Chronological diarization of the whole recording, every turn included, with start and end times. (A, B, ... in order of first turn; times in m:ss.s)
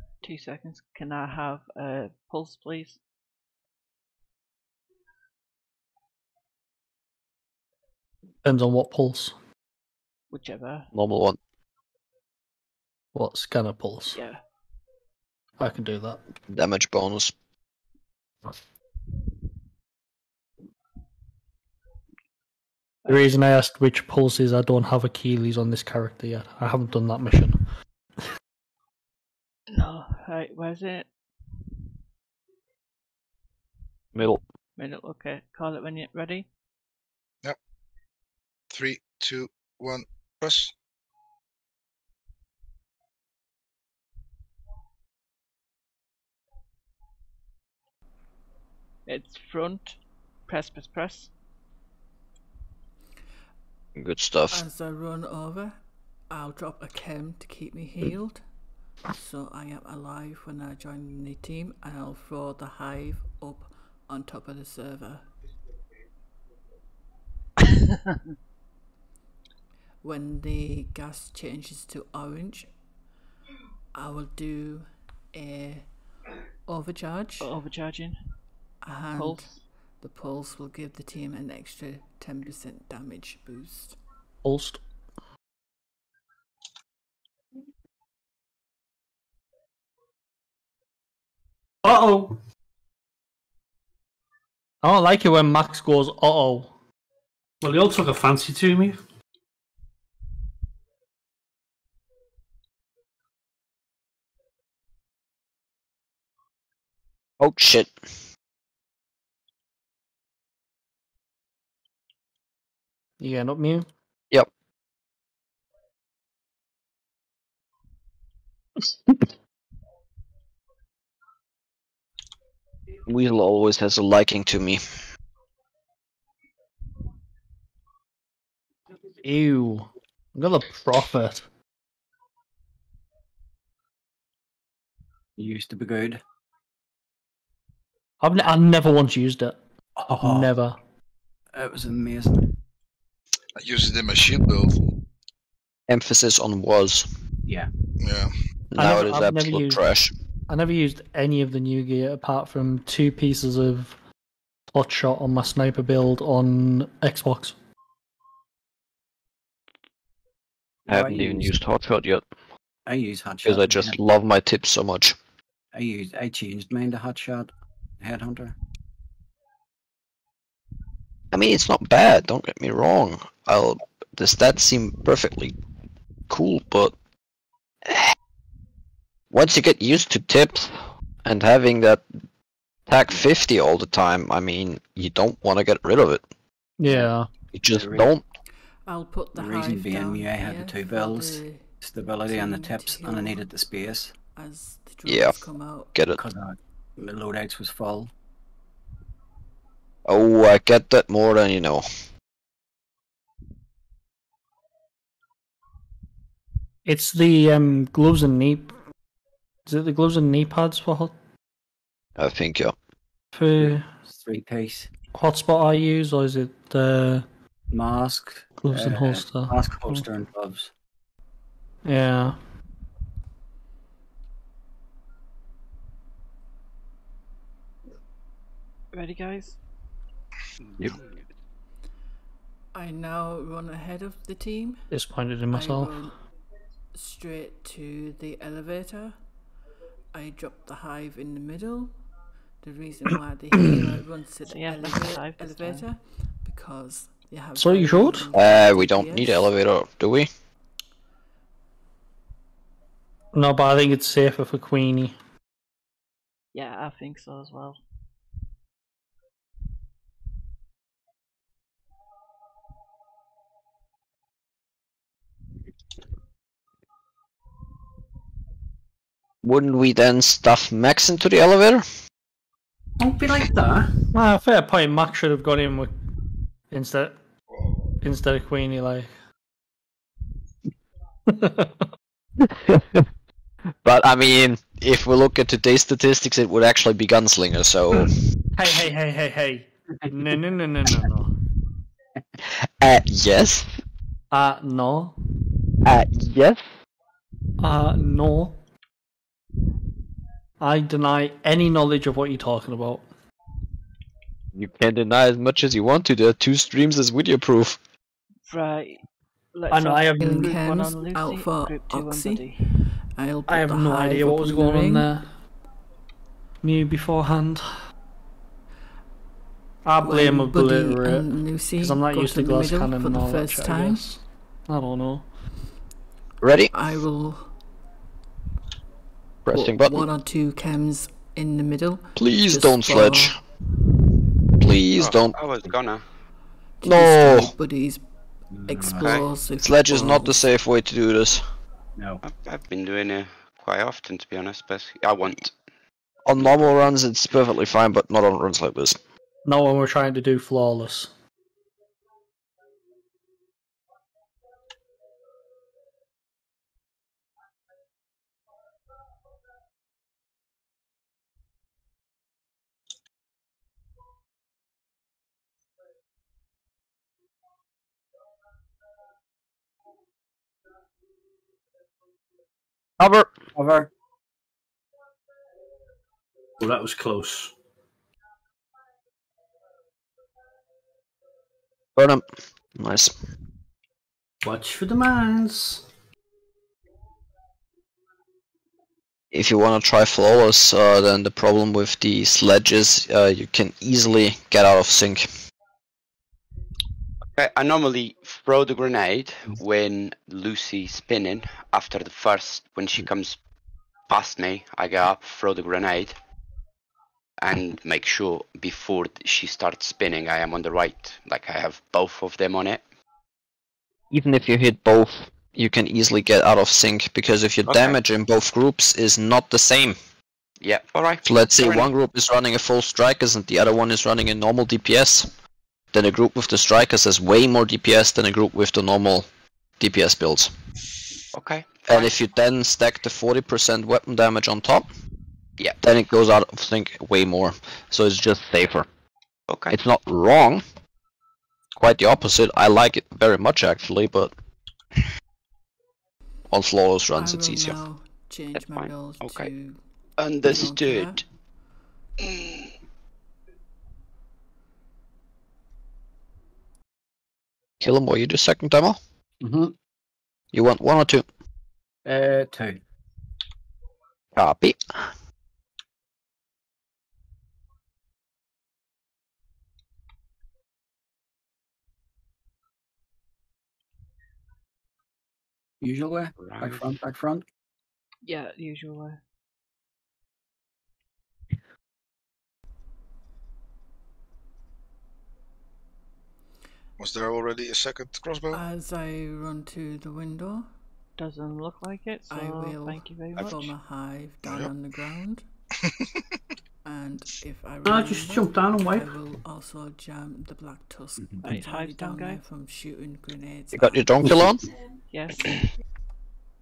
0:00.2-0:03.0 A
0:08.4-0:09.4 B
0:10.3-0:10.9 A
0:10.9-0:11.4 C
0:13.2-0:14.2 B
0:14.1-0:14.4 A
0:15.6-0:16.2 B
0:16.5-0:17.3 C
0:23.1-0:27.6 B
0:29.7-0:31.1 A
0:34.1-0:34.4 C
0:34.8-0:36.5 A
0:38.7-0:40.7 D
0:49.1-0:51.3 A
0:54.0-0:54.6 C
0:54.5-0:55.8 E
0:56.3-0:58.4 E
0:59.1-1:05.2 E
1:10.0-1:12.7 E
1:14.0-1:15.9 E
1:16.7-1:17.5 E
1:17.4-1:18.2 A
1:18.8-1:19.5 E
1:19.2-1:19.6 A
1:20.0-1:24.0 E
1:24.4-1:24.8 B
1:31.8-1:32.4 F
1:34.8-1:36.7 B
1:37.6-1:39.0 F
1:47.4-1:47.9 C
1:53.2-1:53.9 B
2:03.1-2:04.8 C
2:09.2-2:11.5 B
2:15.4-2:16.2 G
2:18.2-2:19.6 B
2:20.0-2:20.5 G
2:20.1-2:20.8 B
2:21.5-2:22.4 G
2:23.6-2:24.8 D
2:25.9-2:27.1 C
2:28.0-2:28.3 D
2:28.8-2:30.1 C
2:28.8-2:29.8 B
2:30.5-2:34.0 B
2:34.7-2:37.6 B
2:40.9-2:42.2 C
2:40.9-2:41.5 G
2:42.9-2:44.0 G
2:43.4-2:45.2 C
2:45.7-2:48.6 G
2:51.3-2:55.6 C
2:56.3-2:57.0 C
2:59.3-3:02.0 C
3:02.9-3:06.2 C
3:06.8-3:07.3 B
3:07.5-3:08.2 C
3:07.7-3:08.1 G
3:08.9-3:11.7 E
3:09.4-3:14.1 G
3:12.2-3:13.4 E
3:14.4-3:15.9 E
3:15.1-3:15.4 C
3:15.9-3:16.2 C
3:16.1-3:18.1 G
3:20.1-3:21.8 C
3:26.9-3:28.7 B
3:29.7-3:31.1 B
3:32.2-3:32.8 C
3:33.3-3:33.9 B
3:33.7-3:34.9 G
3:35.1-3:37.3 B
3:37.7-3:40.7 G
3:38.6-3:40.1 B
3:41.8-3:42.4 B
3:48.9-3:49.6 A
3:52.8-3:54.8 E
3:54.9-3:56.0 B
3:55.5-3:56.2 E
3:56.9-3:59.2 E
4:00.1-4:01.9 E
4:02.6-4:09.5 E
4:04.5-4:05.8 A
4:07.6-4:08.3 B
4:08.4-4:10.3 C
4:13.3-4:15.2 B
4:16.5-4:17.8 A
4:29.4-4:31.8 C
4:33.0-4:33.9 F
4:34.1-4:35.9 B
4:36.7-4:37.2 B
4:38.0-4:39.1 B
4:41.3-4:41.8 B
4:42.4-4:43.0 C
4:43.8-4:48.1 C
4:48.5-4:51.3 B
4:52.5-4:53.8 C
4:54.3-4:55.2 B
4:55.8-4:56.6 C
4:57.6-4:58.6 B
5:00.6-5:03.0 B
5:04.5-5:07.8 C
5:08.5-5:09.0 A
5:09.5-5:12.7 A
5:09.7-5:10.6 B
5:10.2-5:12.4 E
5:13.2-5:15.1 E
5:13.5-5:15.3 B
5:16.6-5:17.7 B
5:19.8-5:25.3 B
5:20.0-5:24.0 E
5:26.4-5:26.7 C
5:26.7-5:27.5 E
5:29.5-5:30.1 C
5:29.5-5:33.4 E
5:32.2-5:33.4 C
5:34.6-5:35.4 C
5:35.0-5:36.0 H
5:36.8-5:38.0 E
5:36.8-5:37.5 C
5:38.5-5:39.2 G
5:38.7-5:40.4 E
5:39.0-5:39.2 H
5:39.6-5:41.4 C
5:42.0-5:42.2 G
5:42.2-5:45.5 H
5:46.3-5:49.0 C
5:49.5-5:51.1 B
6:13.0-6:13.3 C
6:13.5-6:13.9 G
6:16.6-6:17.5 F
6:22.0-6:22.2 C
6:22.8-6:23.1 C
6:24.4-6:25.8 F
6:29.3-6:35.3 C
6:37.3-6:43.4 H
6:44.1-6:46.2 H
6:47.4-6:52.8 H
6:54.1-7:00.0 C
6:57.7-6:58.0 H
7:00.6-7:01.9 H
7:01.2-7:05.3 C
7:05.9-7:09.3 C
7:09.8-7:10.5 C
7:11.3-7:12.2 H
7:11.9-7:14.9 C
7:15.8-7:18.9 C
7:19.5-7:19.8 H
7:19.7-7:20.6 C
7:21.8-7:24.3 C
7:26.5-7:27.8 C
7:27.2-7:29.8 E
7:28.5-7:29.5 H
7:30.2-7:31.2 H
7:30.4-7:31.2 E
7:37.8-7:39.0 C
7:39.4-7:39.7 G
7:40.5-7:41.3 C
7:42.0-7:42.8 G
7:44.4-7:44.8 C
7:55.8-7:57.4 G
7:56.4-7:57.0 H
7:58.2-7:59.2 A
8:07.0-8:08.6 D
8:08.5-8:10.7 E
8:11.2-8:13.7 A
8:12.3-8:15.4 E
8:16.8-8:24.0 E
8:17.8-8:19.2 F
8:21.4-8:22.4 A
8:23.7-8:24.6 C
8:24.3-8:24.5 F
8:25.1-8:25.7 A